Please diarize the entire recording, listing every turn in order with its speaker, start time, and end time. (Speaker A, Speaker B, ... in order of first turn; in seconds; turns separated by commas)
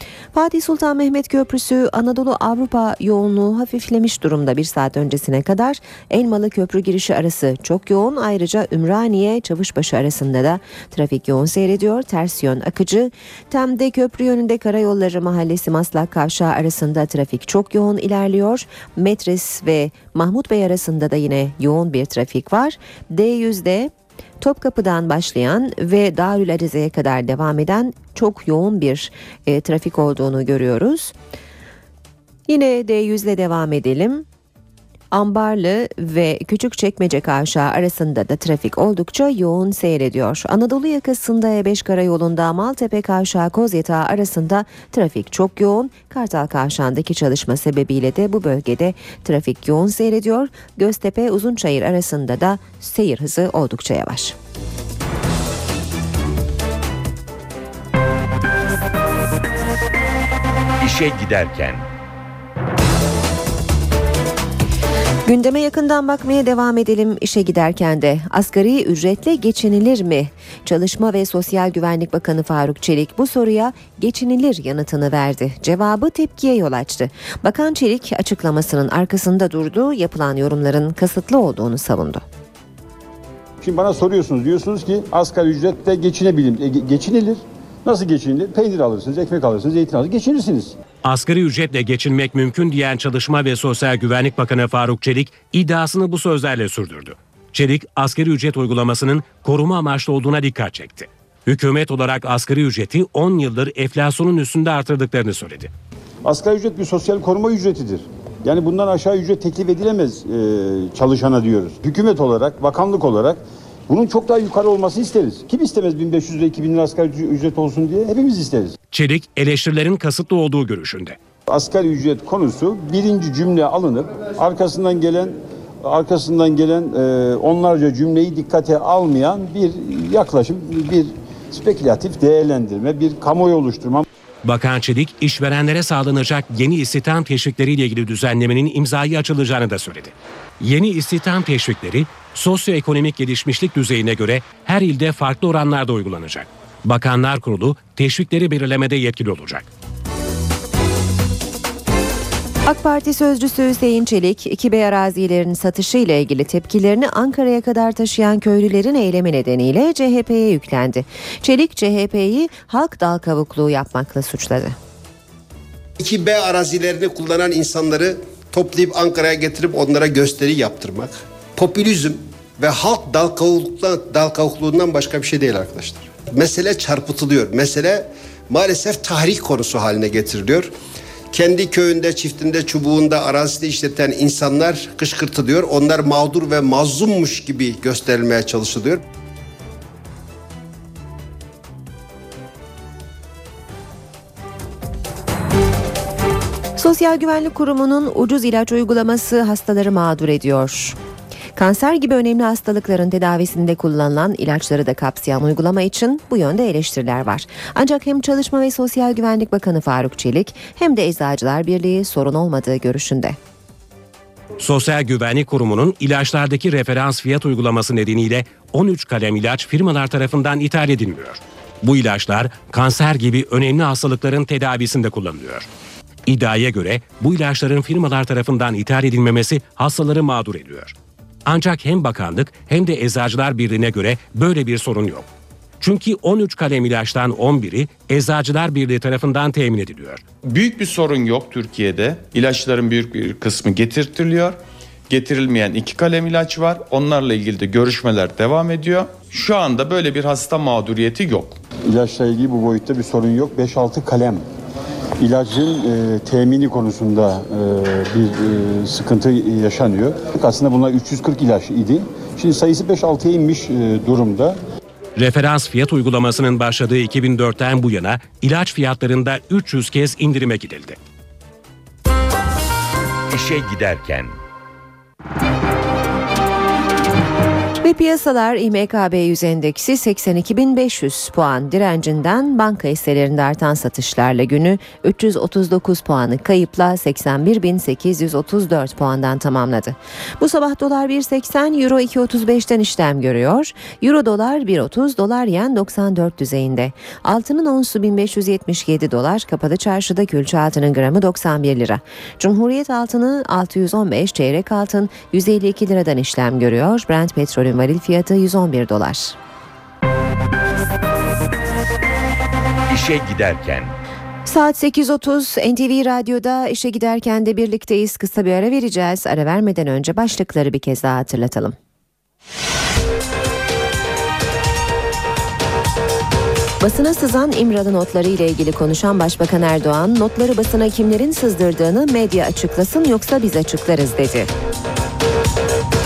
Speaker A: 0.3-31.1, Speaker A: 32.5-34.2, Speaker A: 35.1-54.4, Speaker B: 60.8-61.9, Speaker A: 65.2-82.2, Speaker C: 83.6-90.8, Speaker D: 91.0-105.7, Speaker C: 106.2-118.8, Speaker D: 118.9-121.2, Speaker C: 121.5-134.1, Speaker D: 134.4-149.7, Speaker A: 152.6-164.8, Speaker E: 166.0-180.7, Speaker E: 181.3-189.0, Speaker A: 196.8-200.9, Speaker A: 201.6-213.4, Speaker D: 214.6-225.7, Speaker D: 226.3-230.9, Speaker D: 231.4-235.3, Speaker D: 235.8-240.2, Speaker F: 240.4-251.6, Speaker C: 251.9-254.4, Speaker C: 255.2-264.6, Speaker D: 265.2-271.0, Speaker B: 273.3-274.4, Speaker A: 277.8-309.4, Speaker B: 312.9-313.9, Speaker A: 314.4-321.8, Speaker A: 326.8-334.5